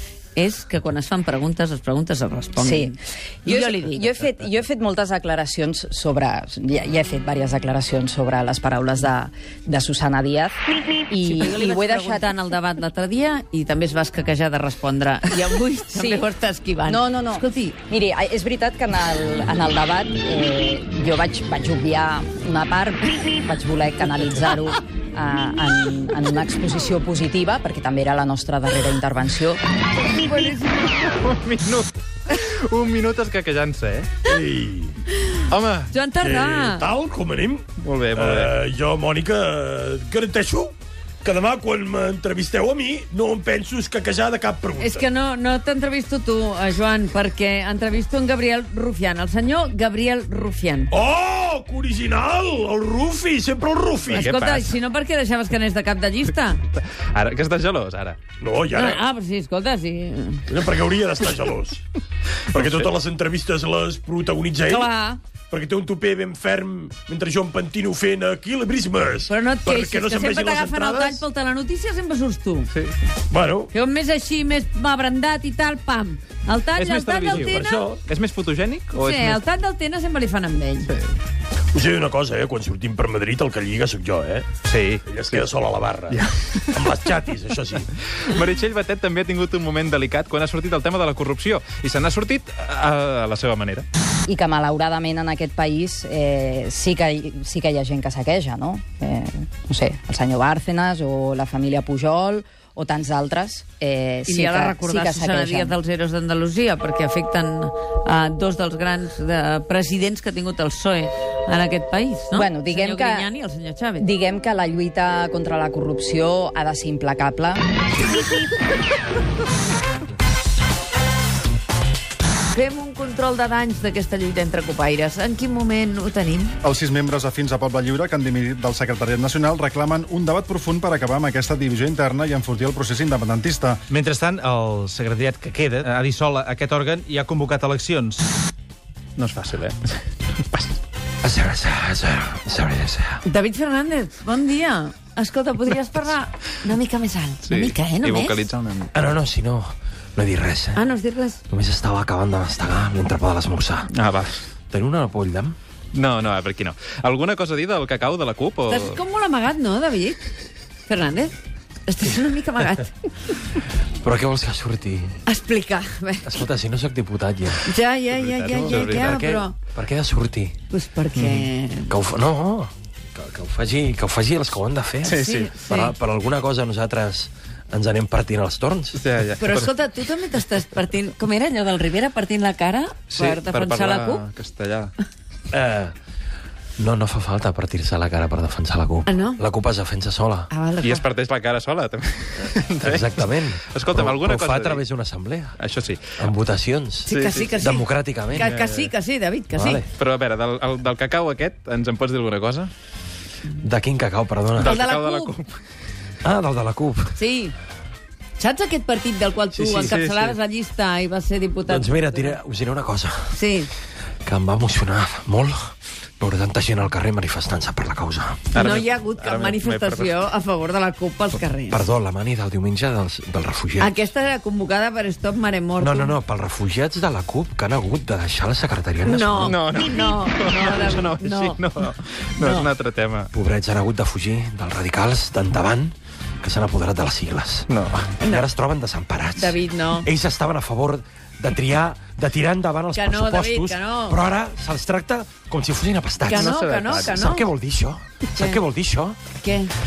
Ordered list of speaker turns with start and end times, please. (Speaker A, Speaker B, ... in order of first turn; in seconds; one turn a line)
Speaker A: 0.4-4.5
Speaker B: 2.6-2.9
Speaker B: 3.5-10.6
Speaker B: 11.1-12.3
Speaker A: 11.2-17.8
Speaker B: 15.9-16.2
Speaker B: 16.9-29.6
Speaker A: 30.2-31.0
Speaker C: 31.0-34.1
Speaker D: 34.3-34.9
Speaker C: 35.5-35.9
Speaker A: 35.9-36.9
Speaker D: 36.2-45.1
Speaker C: 37.8-38.6
Speaker A: 44.8-50.9
Speaker D: 50.9-54.3
Speaker C: 54.1-54.8
Speaker A: 54.2-56.6
Speaker C: 56.8-58.2
Speaker D: 58.4-59.1
Speaker A: 58.7-60.4
Speaker D: 60.5-61.8
Speaker D: 62.5-64.9
Speaker C: 62.5-62.9
Speaker A: 64.7-65.2
Speaker D: 65.5-71.2
Speaker A: 69.3-72.7
Speaker D: 73.3-73.7
Speaker A: 73.7-77.9
Speaker C: 76.8-79.4
Speaker D: 77.3-78.0
Speaker A: 78.9-80.9
Speaker C: 80.9-81.2
Speaker D: 81.7-84.5
Speaker C: 84.7-85.5
Speaker D: 85.1-87.8
Speaker C: 86.1-87.0
Speaker C: 88.1-93.9
Speaker B: 94.3-105.8
Speaker A: 104.3-114.1
Speaker B: 112.3-113.3
Speaker B: 114.0-117.7
Speaker A: 122.5-126.6
Speaker E: 126.6-133.8
Speaker F: 133.9-138.2
Speaker C: 139.2-140.7
Speaker G: 141.2-143.2
Speaker A: 143.2-148.4
Speaker C: 147.4-148.9
Speaker G: 148.9-150.9
Speaker A: 150.8-151.4
Speaker G: 151.5-153.9
Speaker C: 153.9-154.4
Speaker G: 154.7-155.6
Speaker C: 155.9-159.0
Speaker A: 158.7-160.2
Speaker A: 160.9-161.3
Speaker A: 161.9-163.3
Speaker G: 164.0-165.2
Speaker A: 165.3-166.4
Speaker G: 166.2-167.8
Speaker A: 167.7-169.5
Speaker C: 168.1-169.2
Speaker G: 168.5-170.6
Speaker A: 170.7-171.9
Speaker G: 171.9-179.1
Speaker C: 175.0-175.8
Speaker A: 175.2-175.9
Speaker C: 178.9-179.7
Speaker A: 179.4-184.2
Speaker C: 183.1-184.9
Speaker G: 185.5-185.9
Speaker G: 186.8-190.5
Speaker A: 189.1-189.4
Speaker A: 190.5-191.1
Speaker C: 190.8-194.8
Speaker G: 192.8-195.6
Speaker C: 195.6-196.2
Speaker G: 196.2-198.6
Speaker C: 197.1-197.6
Speaker A: 197.1-199.8
Speaker C: 198.4-198.9
Speaker G: 199.5-199.9
Speaker C: 199.9-202.7
Speaker G: 203.6-204.8
Speaker C: 204.6-205.6
Speaker A: 204.6-205.4
Speaker G: 206.2-207.2
Speaker A: 207.2-207.6
Speaker A: 208.4-212.4
Speaker G: 209.6-209.9
Speaker C: 209.8-210.4
Speaker G: 211.7-213.4
Speaker A: 213.3-213.7
Speaker G: 214.2-218.5
Speaker C: 218.5-220.3
Speaker A: 218.6-221.8
Speaker G: 221.7-223.9
Speaker A: 223.8-226.2
Speaker G: 225.8-229.7
Speaker A: 229.1-231.7
Speaker C: 229.4-233.3
Speaker A: 232.4-232.7
Speaker G: 233.3-249.2
Speaker C: 237.7-238.1
Speaker A: 238.2-238.5
Speaker A: 239.4-240.1
Speaker A: 242.9-244.2
Speaker A: 246.3-247.5
Speaker C: 246.3-247.2
Speaker A: 248.4-248.6
Speaker A: 249.4-249.8